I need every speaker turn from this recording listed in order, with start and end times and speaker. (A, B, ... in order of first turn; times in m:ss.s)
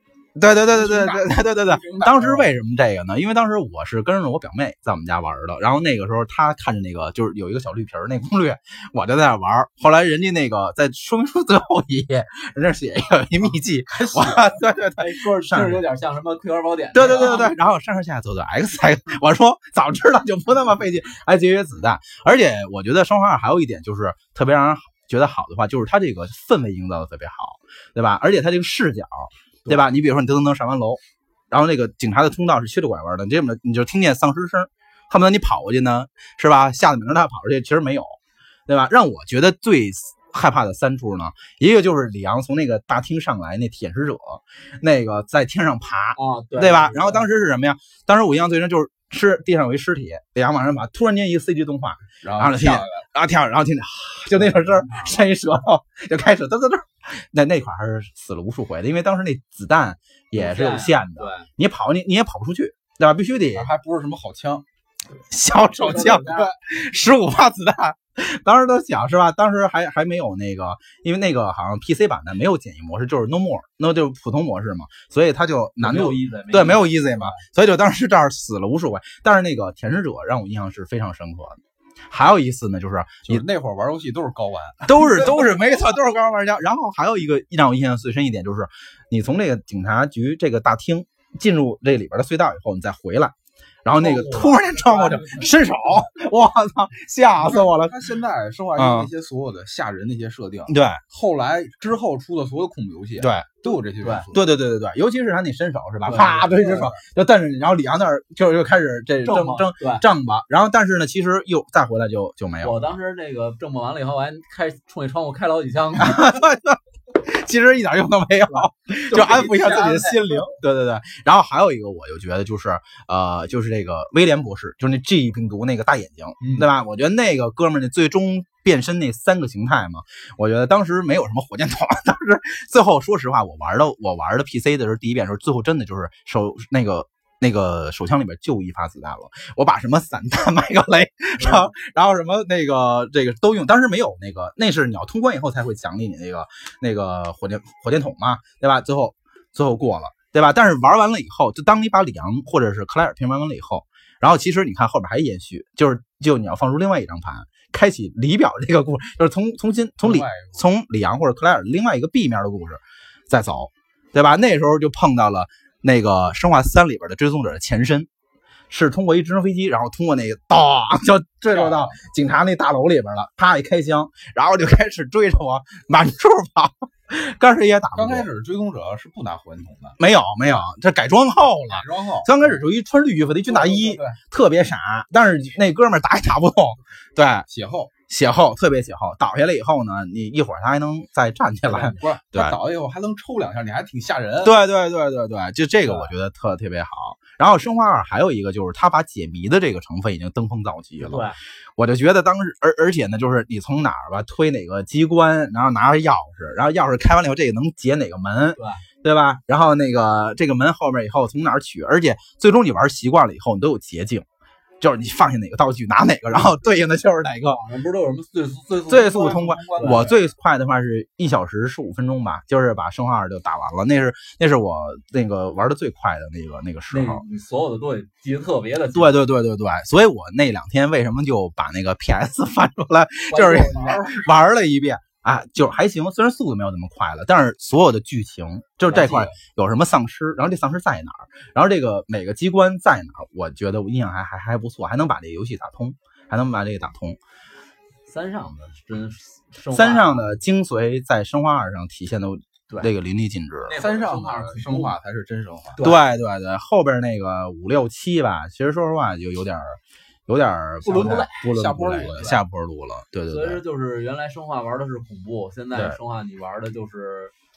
0:00.4-0:15.8 A
0:00.7-0:02.5 B
0:14.0-0:14.6 B
0:15.0-0:17.5 C
0:16.9-1:03.7 A
0:46.2-0:47.3 C
0:52.2-0:53.0 B
1:00.4-1:01.5 C
1:03.5-1:04.6 B
1:05.3-1:23.4 A
1:05.8-1:06.5 C
1:15.8-1:17.4 C
1:23.3-1:25.1 B
1:24.8-1:33.3 A
1:33.8-1:38.0 A
1:34.0-1:35.5 C
1:37.4-1:44.4 B
1:38.8-1:39.1 A
1:40.7-1:41.0 A
1:43.2-1:43.5 A
1:44.0-1:44.3 C
1:44.3-1:52.8 A
1:46.0-1:46.5 C
1:46.1-1:47.0 B
1:49.2-1:50.0 C
1:52.6-1:56.3 C
1:56.0-2:48.1 A
1:59.1-2:00.1 C
1:59.1-2:00.4 B
2:21.4-2:21.7 C
2:40.0-2:40.7 B
2:48.7-2:58.3 A
2:51.5-2:52.0 B
2:58.0-3:00.0 B
3:00.0-3:07.5 A
3:01.7-3:02.6 B
3:03.5-3:04.2 B
3:07.5-3:07.9 B
3:08.1-3:12.6 A
3:11.7-3:14.5 B
3:14.4-3:34.2 A
3:21.0-3:21.4 C
3:28.6-3:28.8 C
3:34.8-3:37.6 A
3:37.5-3:40.1 C
3:38.9-3:47.2 A
3:38.9-3:40.2 B
3:46.9-3:49.2 C
3:48.9-4:07.2 A
3:53.3-3:54.0 C
3:53.5-3:54.3 B
3:58.9-3:59.4 C
4:08.1-4:10.3 C
4:09.7-4:13.8 A
4:13.6-4:15.0 C
4:13.7-4:15.8 B
4:15.7-4:16.0 C
4:15.8-4:23.6 A
4:20.8-4:22.4 C
4:21.1-4:22.3 B
4:23.3-4:27.3 C